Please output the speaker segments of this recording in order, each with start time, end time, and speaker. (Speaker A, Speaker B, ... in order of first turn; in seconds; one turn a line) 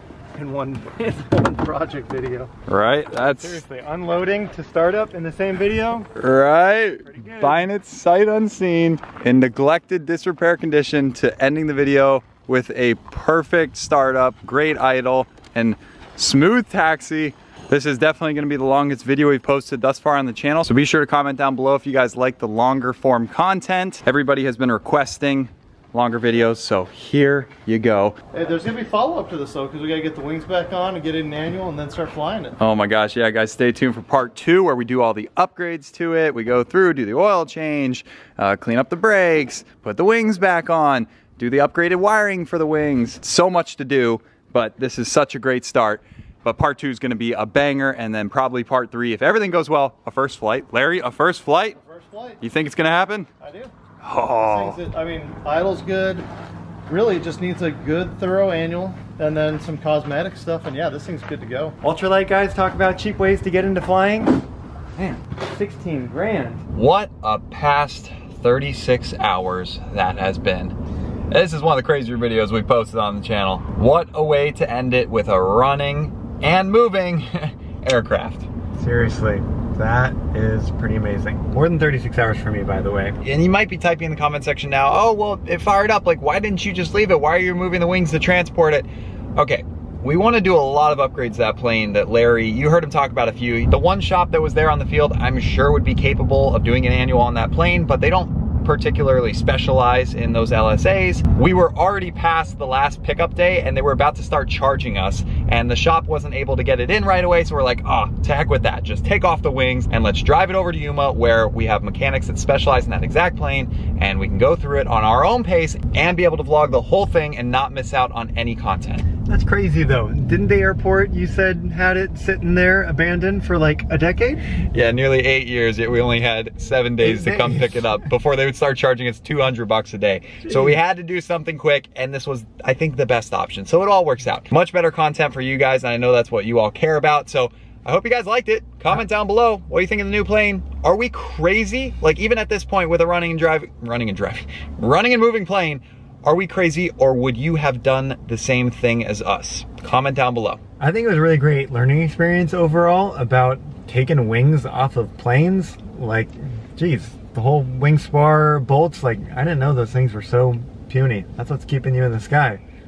Speaker A: 0.3-2.5
Speaker B: 2.7-3.6
Speaker C: 3.1-6.1
Speaker B: 6.2-28.2
Speaker C: 7.0-7.7
Speaker A: 28.3-32.5
Speaker B: 32.6-51.8
Speaker A: 51.7-52.4
Speaker B: 52.4-53.3
Speaker A: 53.4-53.7
Speaker B: 54.0-54.8
Speaker A: 54.4-56.3
Speaker A: 56.9-61.8
Speaker C: 61.8-64.4
Speaker C: 65.0-66.7
Speaker B: 66.7-70.7
Speaker B: 71.3-78.5
Speaker C: 78.7-83.2
Speaker B: 83.2-119.1
Speaker C: 119.2-124.4
Speaker B: 124.7-150.6
Speaker C: 127.0-127.9
Speaker C: 150.8-162.6